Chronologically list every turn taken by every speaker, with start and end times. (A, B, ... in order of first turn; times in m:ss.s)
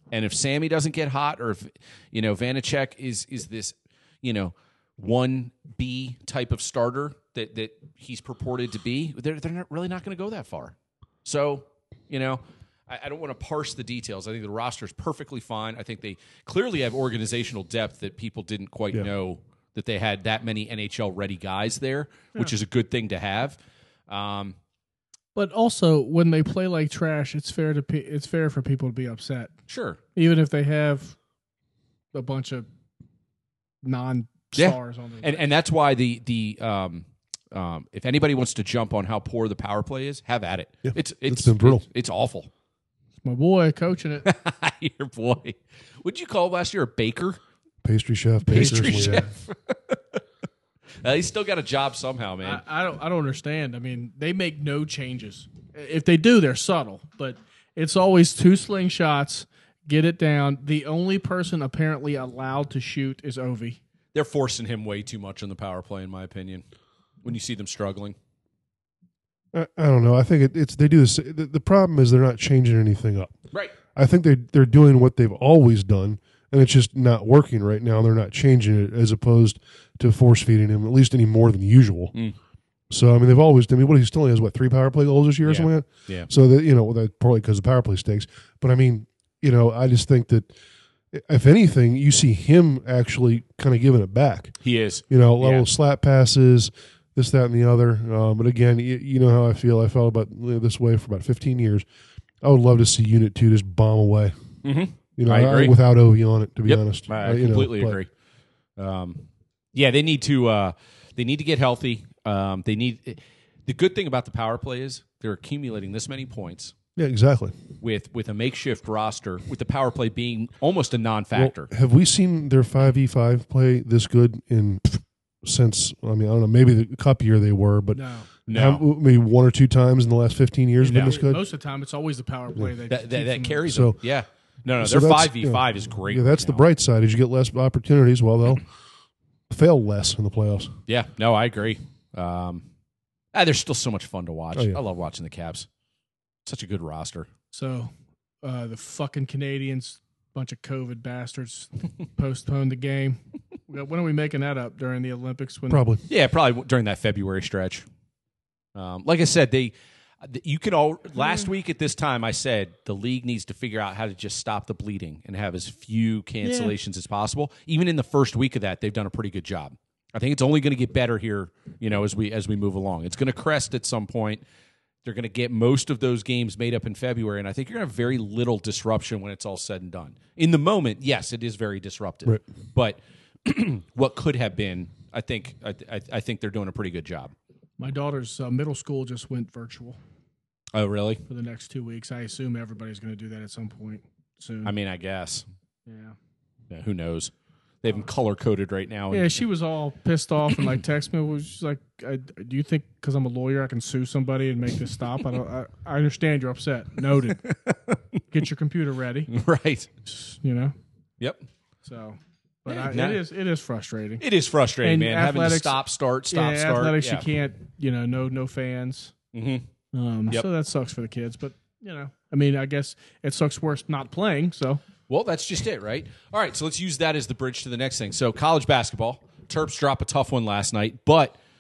0:00.1-0:24.6 A
0:25.4-0:29.5 B
0:29.7-0:30.0 A
0:30.2-0:31.2 B
0:32.1-0:32.7 B
0:33.8-0:35.5 B
0:34.6-0:42.5 A
0:40.8-0:41.8 C
0:43.2-0:44.3 B
0:44.2-0:47.4 A
0:47.8-0:49.3 C
0:48.5-0:50.2 A
0:48.5-0:49.3 B
0:51.0-0:52.6 A
0:52.4-1:03.8 B
1:04.1-1:06.6 A
1:07.2-1:08.2 A
1:09.5-1:13.4 C
1:14.0-1:22.1 C
1:22.9-1:30.5 C
1:25.4-1:26.3 A
1:31.1-1:34.6 C
1:34.6-1:35.7 A
1:35.1-1:41.8 C
1:42.4-1:44.3 C
1:44.6-1:45.8 A
1:45.2-1:48.0 C
1:46.7-1:48.1 A
1:48.8-1:56.8 A
1:57.0-1:57.6 C
1:57.8-2:01.7 A
2:01.4-2:11.4 C
2:07.9-2:08.3 B
2:08.5-2:08.8 A
2:10.8-2:11.2 A
2:10.9-2:13.7 B
2:12.9-2:16.6 A
2:13.7-2:14.0 C
2:14.8-2:18.7 C
2:19.5-2:20.7 C
2:20.9-2:22.6 A
2:23.3-2:25.7 A
2:26.4-2:27.3 A
2:27.5-2:27.9 B
2:28.4-2:35.8 B
2:35.7-2:36.0 C
2:36.1-2:37.8 A
2:38.8-2:54.4 A
2:41.2-2:41.5 B
2:46.4-2:46.8 B
2:55.0-3:07.3 A
3:07.8-3:10.0 B
3:10.7-3:11.2 A
3:11.3-3:14.7 B
3:14.6-3:15.4 A
3:15.9-3:16.2 B
3:16.7-3:19.4 A
3:19.1-3:27.4 B
3:27.4-3:28.2 A
3:28.3-3:29.3 B
3:29.3-3:29.9 A
3:30.1-3:30.8 B
3:31.2-3:31.4 A
3:31.8-3:34.2 B
3:32.7-3:33.2 A
3:34.2-3:37.3 A
3:34.8-3:35.8 B
3:36.3-3:39.1 B
3:39.3-3:39.7 A
3:39.9-3:44.8 B
3:45.1-3:51.4 A